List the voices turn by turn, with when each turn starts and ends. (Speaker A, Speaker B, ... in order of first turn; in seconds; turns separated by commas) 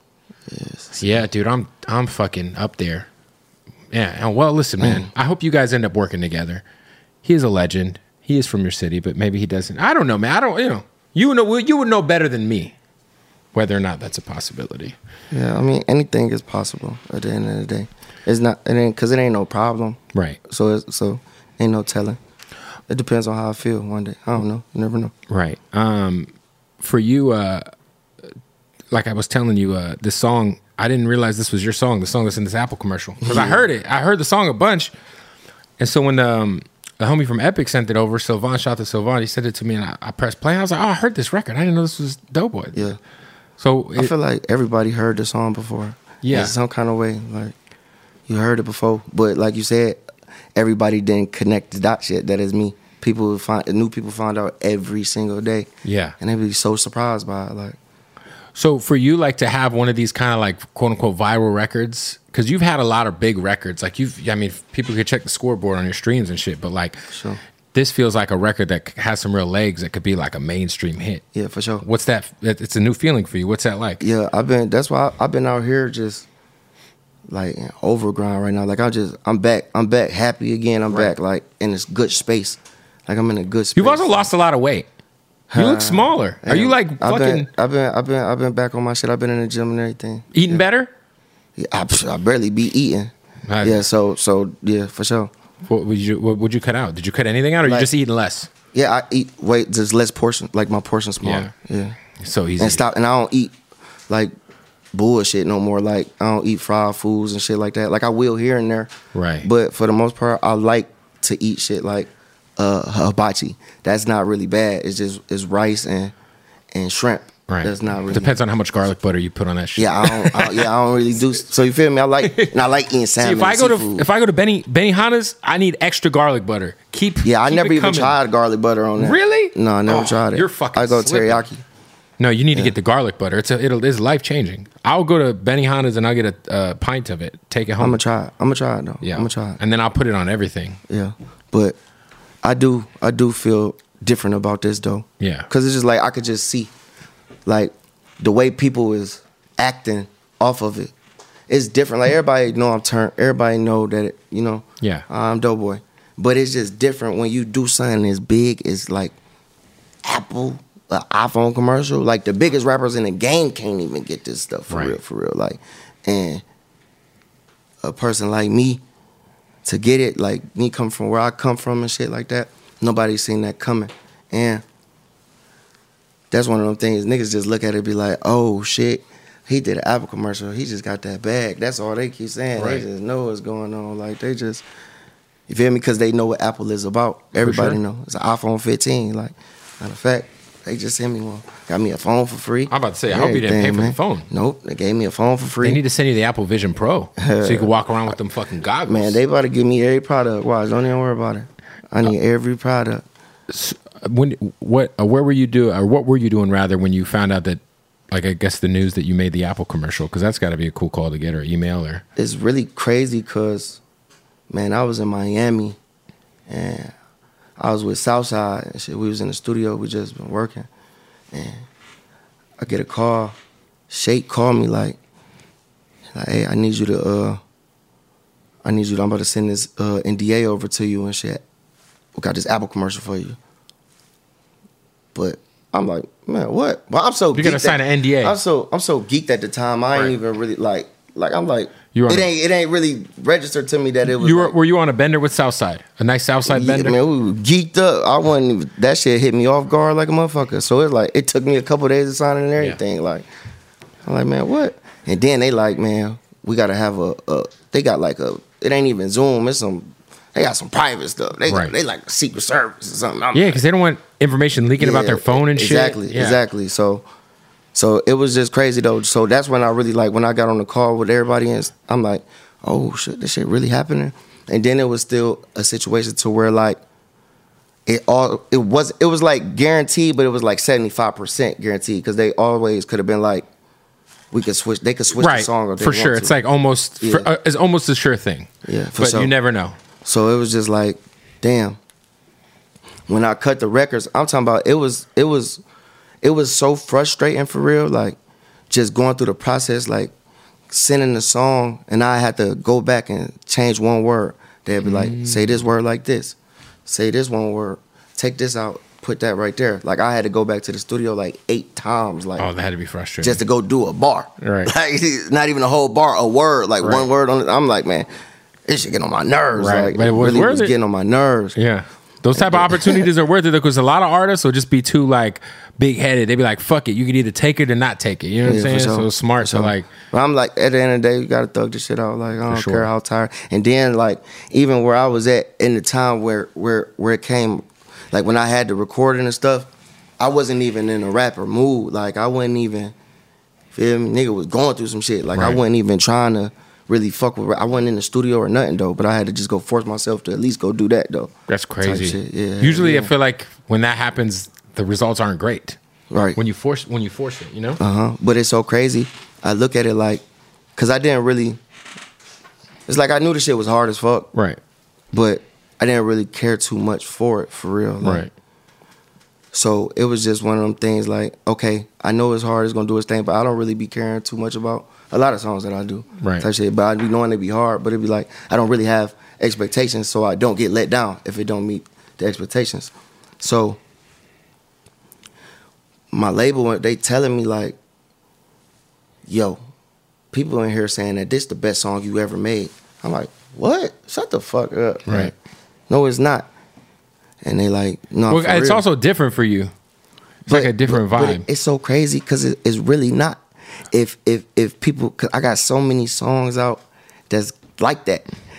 Speaker A: 0.5-1.2, Speaker B: 1.0-3.1, Speaker B: 3.9-6.6, Speaker A: 4.8-5.1, Speaker B: 7.2-12.7, Speaker B: 13.5-14.9, Speaker A: 15.3-22.2, Speaker B: 20.1-20.4, Speaker A: 22.9-25.1, Speaker B: 25.3-26.3, Speaker B: 26.8-27.7, Speaker B: 28.9-34.9, Speaker A: 33.2-33.6, Speaker B: 35.8-42.9, Speaker B: 43.6-44.1, Speaker A: 43.9-47.5, Speaker B: 46.2-46.5, Speaker A: 48.3-50.0, Speaker A: 50.5-57.8, Speaker B: 55.8-56.1, Speaker B: 58.5-67.0, Speaker A: 67.1-67.4, Speaker B: 67.7-71.2, Speaker A: 71.3-71.8, Speaker B: 71.8-74.0, Speaker A: 74.0-76.2, Speaker A: 77.3-84.3, Speaker B: 83.8-84.9, Speaker A: 85.5-90.6, Speaker B: 85.5-87.5, Speaker B: 90.3-90.9, Speaker A: 91.6-95.3, Speaker B: 93.5-93.8, Speaker B: 95.7-98.5, Speaker A: 97.6-97.9, Speaker A: 98.7-102.0, Speaker B: 101.2-101.5, Speaker B: 102.2-102.8, Speaker A: 102.6-103.5, Speaker A: 104.9-108.9, Speaker B: 109.1-109.5, Speaker A: 109.4-116.1, Speaker A: 116.7-118.3, Speaker B: 117.5-120.7, Speaker A: 119.8-124.1, Speaker B: 122.2-122.6, Speaker B: 123.2-128.2, Speaker A: 127.2-131.6, Speaker B: 129.0-131.4, Speaker B: 132.2-138.0, Speaker A: 137.8-139.6, Speaker B: 139.0-140.8, Speaker A: 140.9-141.8, Speaker A: 142.4-146.7, Speaker B: 145.2-145.5, Speaker A: 147.4-150.9, Speaker A: 151.5-159.1, Speaker B: 154.8-155.1, Speaker A: 160.0-166.4, Speaker B: 164.7-165.0, Speaker A: 167.8-168.8, Speaker A: 169.6-174.6, Speaker A: 176.3-184.6, Speaker B: 182.6-182.8, Speaker A: 185.5-195.8, Speaker B: 187.4-187.8, Speaker B: 192.7-194.3, Speaker B: 195.6-199.2, Speaker A: 197.2-197.7, Speaker A: 198.9-203.0, Speaker B: 203.5-212.0, Speaker A: 212.2-213.8, Speaker A: 214.5-215.8, Speaker A: 216.5-216.9, Speaker A: 217.6-220.7, Speaker A: 221.3-221.6, Speaker A: 222.6-223.3, Speaker A: 223.9-225.0, Speaker A: 226.1-227.4, Speaker A: 228.6-231.4, Speaker A: 232.2-233.4, Speaker A: 235.1-244.5, Speaker B: 237.3-238.4, Speaker B: 241.9-242.3, Speaker B: 244.1-246.9, Speaker A: 246.4-253.3, Speaker A: 254.1-263.6, Speaker B: 261.5-261.7, Speaker B: 263.3-266.4, Speaker A: 264.8-267.1, Speaker A: 267.7-276.8, Speaker A: 277.9-283.4, Speaker A: 284.3-286.4, Speaker B: 285.1-289.7, Speaker A: 287.0-287.3, Speaker A: 288.6-289.3, Speaker A: 290.0-291.8, Speaker A: 293.1-295.6, Speaker A: 296.2-298.2, Speaker A: 298.7-300.1, Speaker A: 300.7-312.5, Speaker B: 304.8-305.6, Speaker B: 312.4-313.4, Speaker A: 313.2-318.1, Speaker B: 314.4-314.7, Speaker B: 316.8-317.1, Speaker A: 318.6-321.6, Speaker B: 319.6-320.7, Speaker B: 321.5-329.9, Speaker A: 322.4-323.1, Speaker A: 328.4-342.9, Speaker B: 332.5-332.9, Speaker A: 343.7-353.1, Speaker B: 351.5-355.8, Speaker A: 356.1-356.4, Speaker B: 356.4-357.8, Speaker A: 357.8-360.2, Speaker A: 360.8-361.6, Speaker A: 362.9-364.3, Speaker B: 364.3-364.6, Speaker A: 365.1-368.3, Speaker B: 368.0-368.3, Speaker A: 369.5-383.8, Speaker B: 376.2-376.5, Speaker A: 386.1-387.8, Speaker A: 389.2-389.6, Speaker A: 390.3-395.3, Speaker B: 395.1-395.3, Speaker A: 395.9-396.5, Speaker A: 397.4-398.8, Speaker B: 398.3-399.7, Speaker B: 400.4-401.4, Speaker A: 400.5-408.3